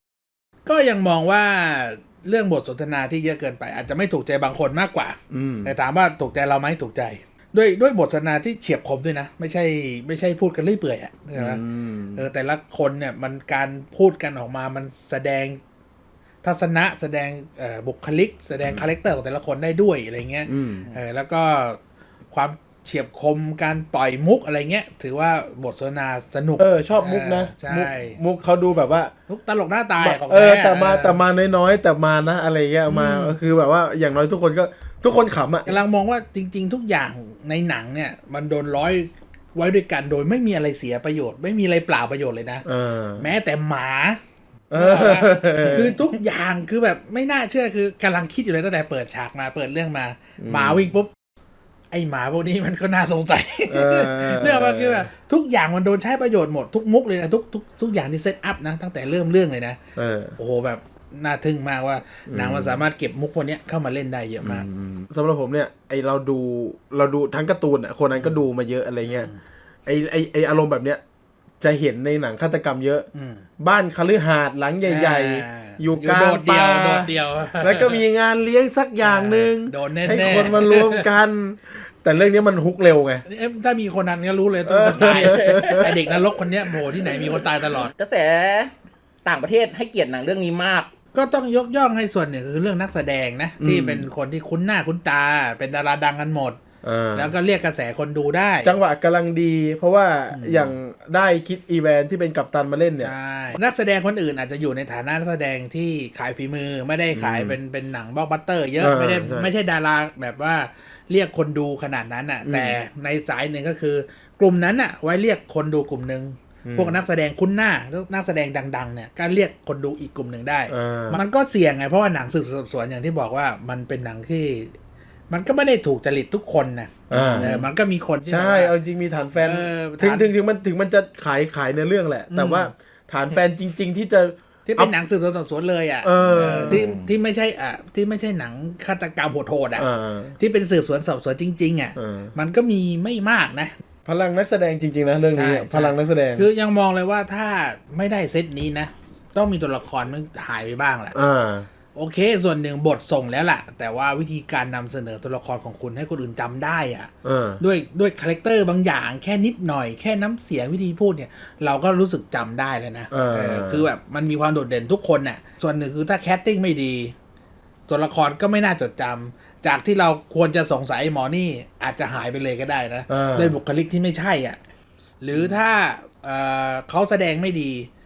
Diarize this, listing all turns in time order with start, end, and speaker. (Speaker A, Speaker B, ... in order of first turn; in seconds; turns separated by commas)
Speaker A: 0.7-11.6, Speaker B: 5.3-5.7, Speaker B: 11.3-12.2, Speaker A: 12.1-15.6, Speaker A: 16.4-21.8, Speaker B: 20.5-20.9, Speaker A: 22.3-28.2, Speaker B: 26.6-29.1, Speaker A: 29.3-31.2, Speaker B: 30.0-35.7, Speaker A: 32.9-33.4, Speaker A: 35.6-42.6, Speaker B: 42.6-43.2, Speaker A: 43.2-44.2, Speaker B: 44.7-46.0, Speaker A: 44.7-51.1, Speaker B: 50.4-50.9, Speaker A: 51.9-59.8, Speaker B: 53.7-55.1, Speaker B: 59.9-60.3, Speaker A: 60.4-64.7, Speaker B: 62.3-62.8, Speaker B: 64.4-69.3, Speaker A: 69.0-69.4, Speaker B: 69.8-71.0, Speaker B: 71.6-73.1, Speaker A: 73.1-73.5, Speaker B: 73.6-83.2, Speaker A: 74.8-78.0, Speaker A: 79.0-81.0, Speaker A: 83.2-87.9, Speaker B: 84.7-85.9, Speaker C: 85.0-85.9, Speaker C: 87.9-88.7, Speaker C: 89.2-90.9, Speaker A: 91.1-96.6, Speaker B: 93.6-94.1, Speaker B: 96.8-97.3, Speaker A: 97.1-98.8, Speaker B: 98.6-103.1, Speaker A: 100.3-100.7, Speaker A: 103.0-124.7, Speaker B: 107.1-107.6, Speaker B: 108.8-109.5, Speaker B: 112.4-112.8, Speaker B: 116.6-117.0, Speaker B: 120.7-121.2, Speaker A: 125.3-128.7, Speaker B: 127.1-127.7, Speaker B: 128.2-134.9, Speaker A: 129.4-130.3, Speaker A: 132.3-132.7, Speaker A: 134.7-139.8, Speaker B: 136.0-136.9, Speaker C: 136.3-137.1, Speaker B: 139.8-140.3, Speaker A: 140.4-143.8, Speaker B: 141.9-142.3, Speaker B: 144.1-146.5, Speaker A: 145.3-151.1, Speaker B: 151.1-151.7, Speaker A: 151.9-167.1, Speaker B: 157.2-157.6, Speaker B: 163.1-163.9, Speaker A: 167.9-174.6, Speaker B: 173.1-173.6, Speaker A: 175.2-177.9